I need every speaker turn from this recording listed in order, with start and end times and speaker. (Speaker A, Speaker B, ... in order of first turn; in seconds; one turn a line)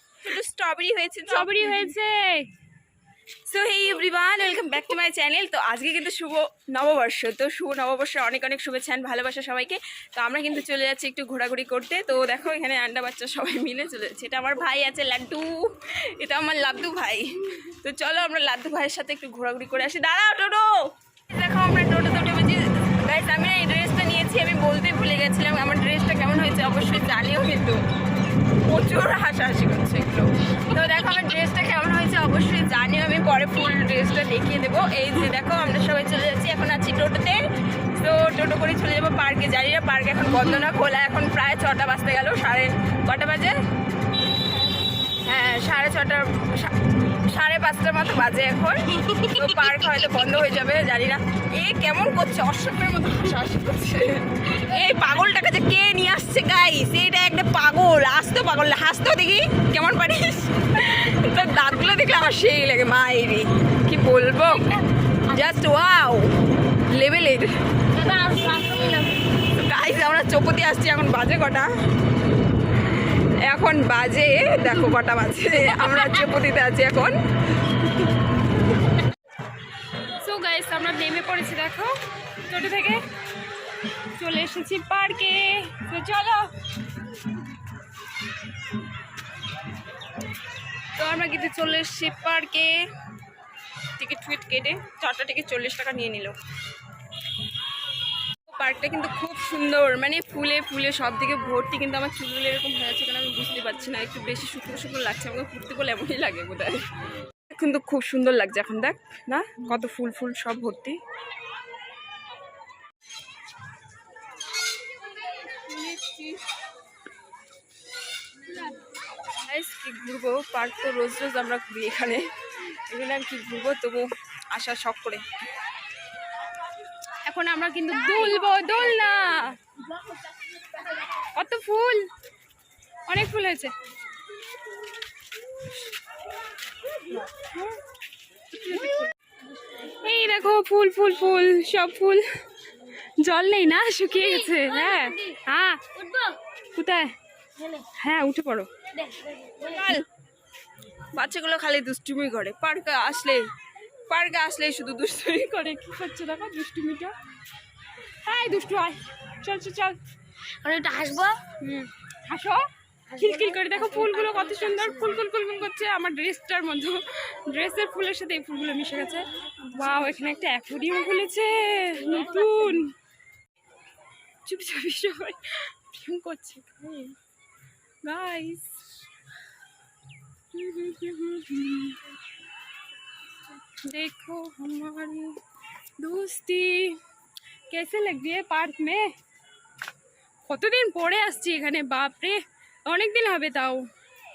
Speaker A: 0.2-1.7
Speaker B: 1.3-2.5
Speaker A: 3.5-20.7
Speaker A: 21.3-27.8
Speaker A: 28.4-37.4
Speaker A: 38.0-43.5
Speaker A: 45.2-67.5
Speaker C: 67.9-69.2
Speaker A: 69.4-71.7
Speaker A: 72.9-77.2
Speaker B: 80.2-81.9
Speaker B: 82.5-83.0
Speaker B: 84.2-86.5
Speaker A: 91.0-92.8
Speaker A: 94.0-96.4
Speaker A: 98.5-106.9
Speaker A: 107.5-111.0
Speaker A: 115.5-116.4
Speaker A: 119.4-125.2
Speaker B: 127.2-129.6
Speaker B: 131.3-132.1
Speaker B: 133.1-133.7
Speaker B: 137.5-137.8
Speaker B: 138.5-139.1
Speaker B: 140.0-142.2
Speaker B: 143.2-145.8
Speaker C: 144.1-145.4
Speaker C: 145.9-146.4
Speaker B: 146.8-147.1
Speaker C: 147.6-147.8
Speaker B: 148.0-148.7
Speaker C: 148.9-149.9
Speaker A: 149.6-150.1
Speaker A: 151.1-153.4
Speaker A: 154.1-155.6
Speaker B: 155.6-157.1
Speaker B: 158.2-160.0
Speaker C: 160.6-161.4
Speaker B: 161.6-172.9
Speaker C: 163.1-165.2
Speaker C: 172.0-172.8
Speaker B: 174.4-177.1
Speaker B: 178.0-178.8
Speaker B: 180.5-182.0
Speaker B: 183.8-185.4
Speaker B: 186.0-187.0
Speaker B: 187.7-189.1
Speaker B: 190.4-193.9